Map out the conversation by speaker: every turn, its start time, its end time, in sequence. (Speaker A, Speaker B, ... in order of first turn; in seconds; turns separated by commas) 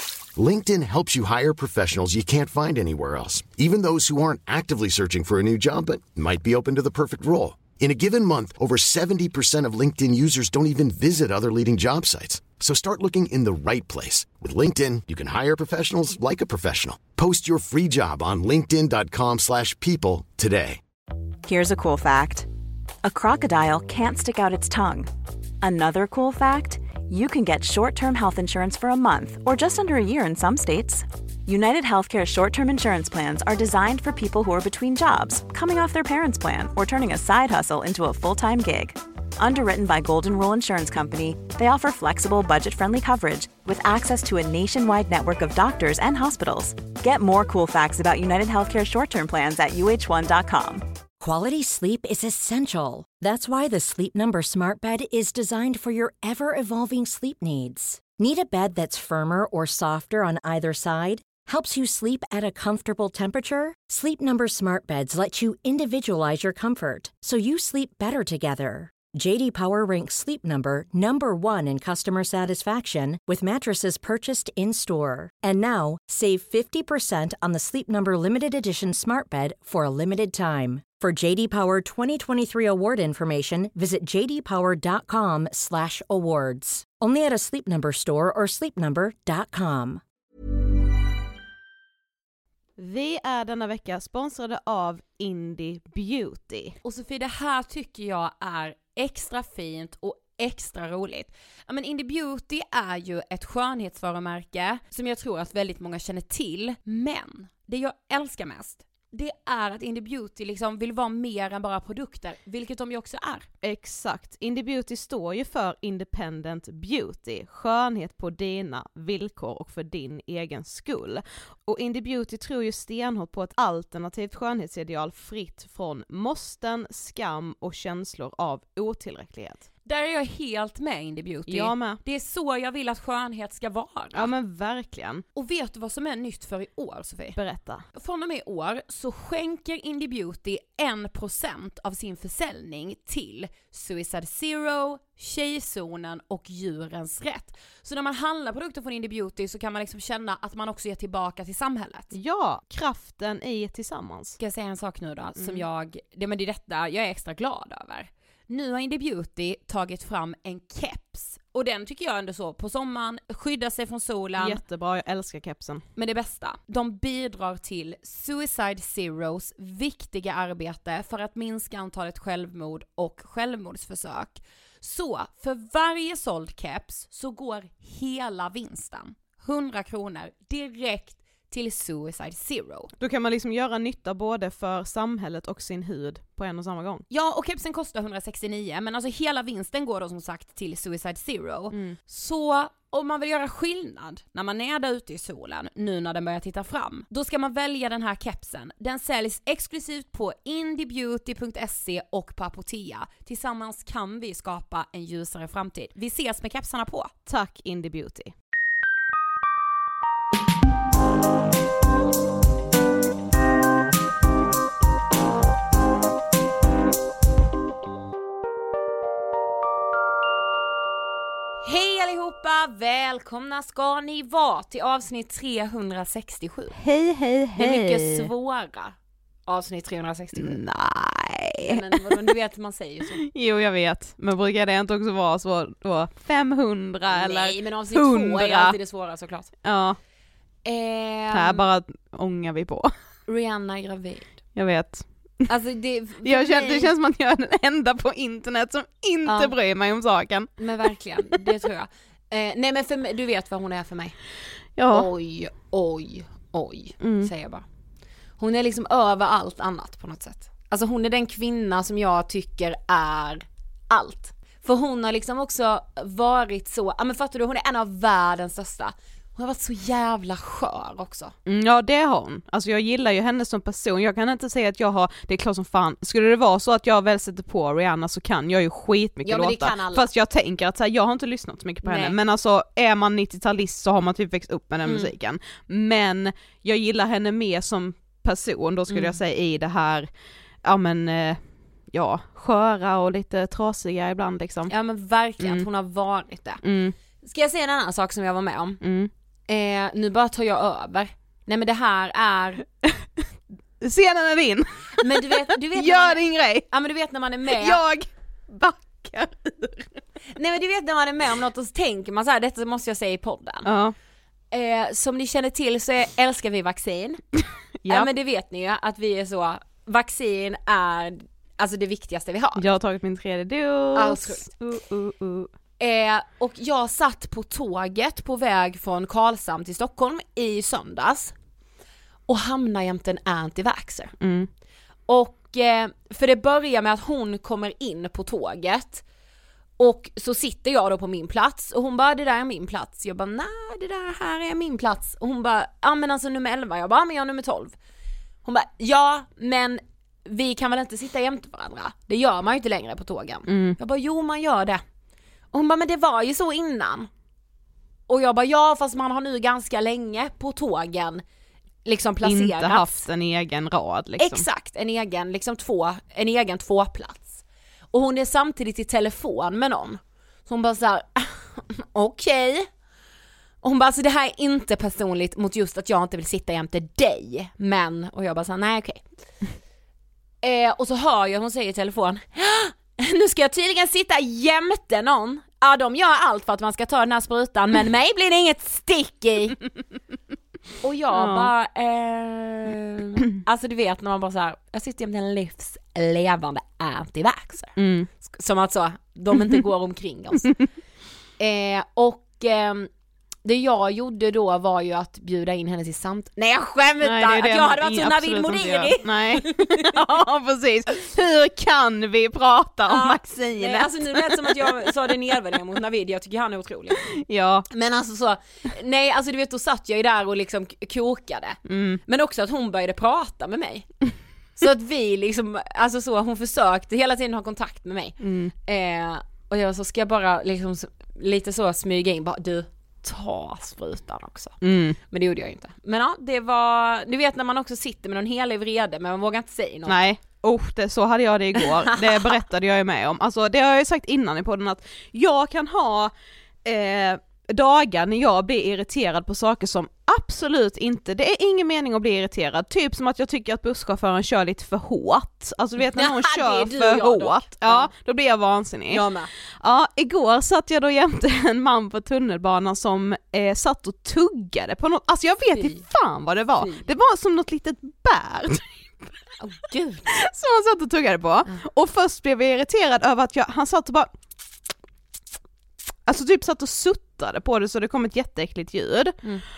Speaker A: 0.4-20.8, Speaker B: 21.4-22.5, Speaker B: 23.0-25.1, Speaker B: 25.6-50.9, Speaker C: 51.2-90.0, Speaker D: 92.8-96.8, Speaker E: 96.8-113.5, Speaker D: 113.6-129.7, Speaker E: 129.8-134.3, Speaker D: 131.5-132.0, Speaker D: 134.1-135.2, Speaker E: 135.3-137.4, Speaker D: 137.3-137.8, Speaker E: 137.9-152.1, Speaker D: 152.1-154.4, Speaker E: 154.4-164.6, Speaker D: 155.4-155.6, Speaker D: 164.4-165.8, Speaker E: 166.0-182.9, Speaker D: 183.0-187.0, Speaker E: 187.1-207.1, Speaker D: 191.7-192.0, Speaker D: 207.3-208.3, Speaker E: 221.6-226.8, Speaker D: 226.8-228.3, Speaker E: 227.6-228.9, Speaker E: 229.5-230.6, Speaker D: 230.4-232.2, Speaker E: 231.6-233.2, Speaker D: 233.1-238.8, Speaker E: 237.1-239.5, Speaker D: 239.6-240.0, Speaker E: 240.7-241.7, Speaker D: 241.3-242.9, Speaker E: 243.3-244.4, Speaker D: 244.6-245.5, Speaker E: 245.5-246.9, Speaker D: 246.2-250.5, Speaker E: 249.3-249.6, Speaker E: 250.6-254.2, Speaker D: 254.8-255.1, Speaker E: 254.9-257.6, Speaker D: 257.0-257.3, Speaker E: 258.4-271.4, Speaker D: 271.5-290.1, Speaker E: 279.2-280.1, Speaker E: 281.8-282.2, Speaker E: 284.8-285.1, Speaker E: 288.9-289.2, Speaker D: 290.6-291.4, Speaker D: 291.9-294.7, Speaker E: 294.7-296.6, Speaker D: 296.6-296.9, Speaker E: 297.2-298.8, Speaker D: 298.8-299.1, Speaker E: 299.5-302.6, Speaker D: 303.8-306.7, Speaker E: 305.0-307.8, Speaker D: 307.5-309.9, Speaker E: 310.4-313.7, Speaker D: 313.6-313.9, Speaker E: 314.5-317.2, Speaker D: 317.8-318.1, Speaker E: 317.9-322.6, Speaker D: 322.6-325.5, Speaker E: 323.9-324.5, Speaker E: 325.8-331.3, Speaker E: 332.3-334.2, Speaker D: 334.2-334.5, Speaker E: 335.1-339.0, Speaker E: 339.8-347.8, Speaker E: 348.4-354.8, Speaker D: 353.5-353.8, Speaker E: 355.5-357.1, Speaker E: 358.1-361.2, Speaker E: 361.9-362.9, Speaker D: 362.2-364.4, Speaker E: 364.2-372.7, Speaker E: 373.6-379.0, Speaker E: 380.4-389.6, Speaker E: 390.8-400.6, Speaker D: 391.1-391.5, Speaker D: 397.8-398.1, Speaker E: 401.4-402.9, Speaker E: 403.4-409.9, Speaker D: 407.0-414.8, Speaker E: 412.9-417.0, Speaker D: 417.0-417.7, Speaker E: 417.7-434.6, Speaker D: 421.7-422.0, Speaker D: 428.2-428.5, Speaker D: 434.6-435.0, Speaker E: 435.1-440.0, Speaker D: 439.9-446.1, Speaker E: 441.6-442.3, Speaker D: 446.6-459.0, Speaker E: 455.9-457.9, Speaker E: 458.9-459.3, Speaker D: 459.6-468.7, Speaker E: 465.6-465.8, Speaker E: 469.4-470.1, Speaker D: 470.1-474.1, Speaker D: 476.1-479.2